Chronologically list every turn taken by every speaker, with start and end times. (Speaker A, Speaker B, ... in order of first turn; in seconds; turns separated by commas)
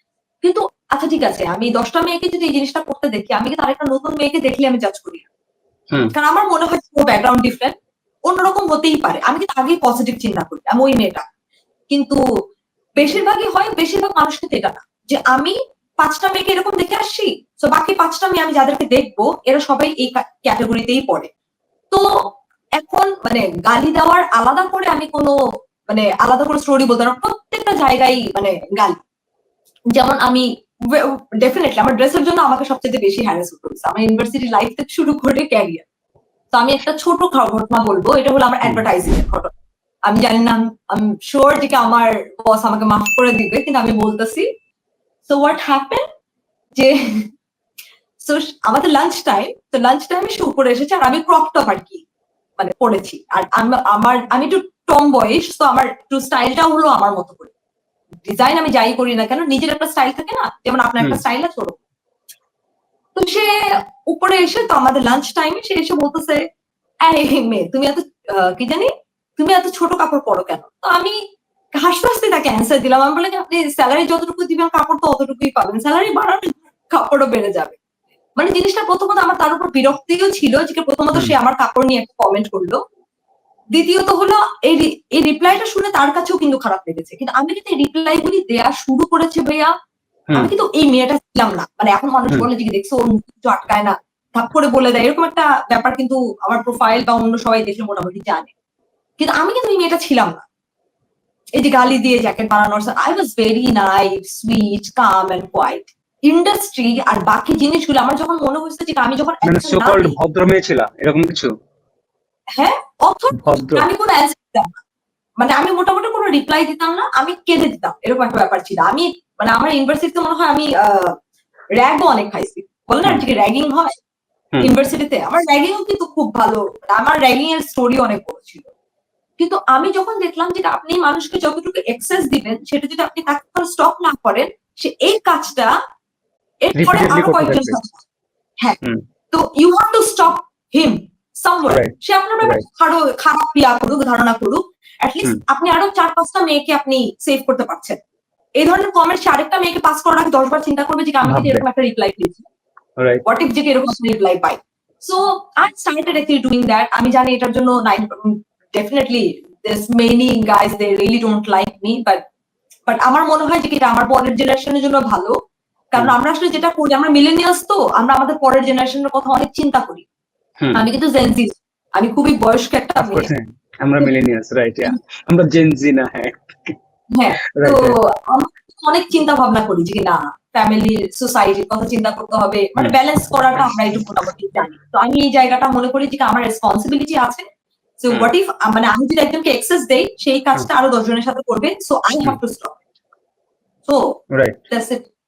Speaker A: 0.4-5.3, Speaker A: 6.1-7.7, Speaker A: 8.3-11.2, Speaker A: 11.9-12.2, Speaker A: 13.0-21.3, Speaker A: 22.8-25.3, Speaker A: 25.9-29.0, Speaker A: 29.9-35.9, Speaker A: 36.5-39.5, Speaker A: 40.1-44.5, Speaker A: 45.3-46.0, Speaker A: 46.8-47.3, Speaker A: 48.2-52.0, Speaker A: 52.6-57.5, Speaker A: 58.3-61.8, Speaker A: 63.2-63.5, Speaker A: 64.1-66.4, Speaker A: 67.1-71.2, Speaker A: 71.8-77.8, Speaker A: 78.4-82.8, Speaker A: 83.8-89.7, Speaker A: 90.3-98.5, Speaker A: 99.2-100.4, Speaker A: 101.6-110.2, Speaker B: 109.5-111.5, Speaker A: 112.6-114.8, Speaker B: 113.4-113.9, Speaker A: 115.4-121.1, Speaker A: 121.8-123.9, Speaker A: 124.6-128.7, Speaker A: 129.4-135.7, Speaker A: 136.6-138.0, Speaker B: 136.8-137.8, Speaker A: 139.3-148.0, Speaker B: 141.7-142.6, Speaker A: 148.6-152.4, Speaker B: 151.3-151.6, Speaker B: 153.0-153.2, Speaker A: 153.2-162.2, Speaker A: 162.9-165.3, Speaker A: 165.9-170.0, Speaker A: 170.7-173.3, Speaker B: 173.0-176.8, Speaker A: 177.1-187.4, Speaker B: 177.6-178.0, Speaker A: 188.0-192.8, Speaker A: 194.7-195.1